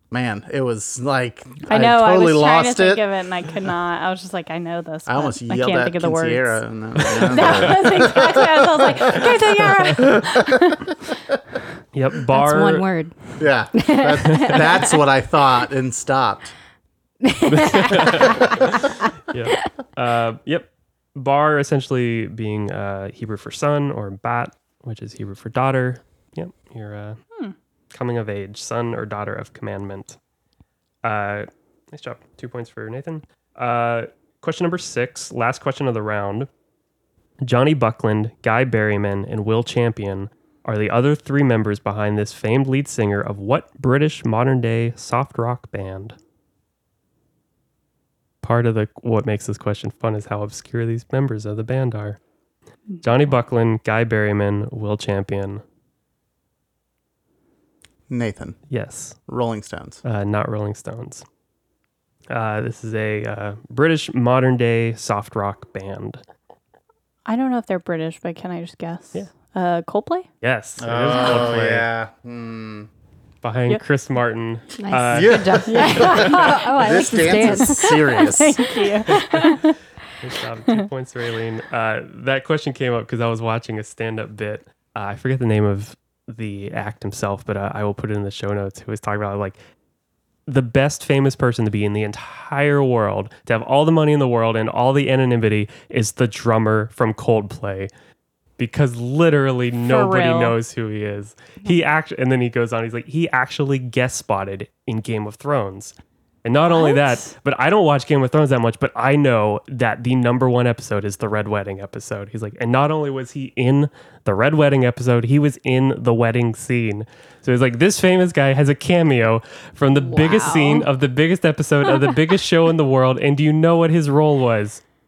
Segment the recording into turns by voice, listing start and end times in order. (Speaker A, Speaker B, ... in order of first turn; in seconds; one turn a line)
Speaker A: 0.1-3.0
Speaker B: 1.7-10.9
Speaker A: 5.0-9.2
Speaker C: 7.0-8.0
Speaker C: 9.2-10.1
Speaker A: 10.0-10.7
Speaker C: 11.9-12.9
Speaker D: 12.3-14.9
Speaker A: 13.4-16.5
Speaker D: 17.2-18.5
Speaker C: 17.4-27.2
Speaker C: 27.9-30.2
Speaker C: 31.0-36.5
Speaker C: 37.4-46.1
Speaker C: 48.4-52.2
Speaker C: 53.0-55.6
Speaker A: 58.1-58.6
Speaker C: 58.7-59.2
Speaker A: 59.3-60.0
Speaker C: 60.0-61.2
Speaker C: 62.3-66.2
Speaker B: 67.2-70.3
Speaker C: 70.4-71.9
Speaker A: 70.8-72.9
Speaker C: 73.4-75.7
Speaker D: 74.8-78.3
Speaker A: 75.1-78.7
Speaker B: 75.7-79.8
Speaker D: 79.1-79.4
Speaker C: 80.2-89.6
Speaker C: 90.5-97.9
Speaker C: 98.6-124.8
Speaker B: 99.8-100.5
Speaker B: 106.7-107.3
Speaker D: 120.0-120.9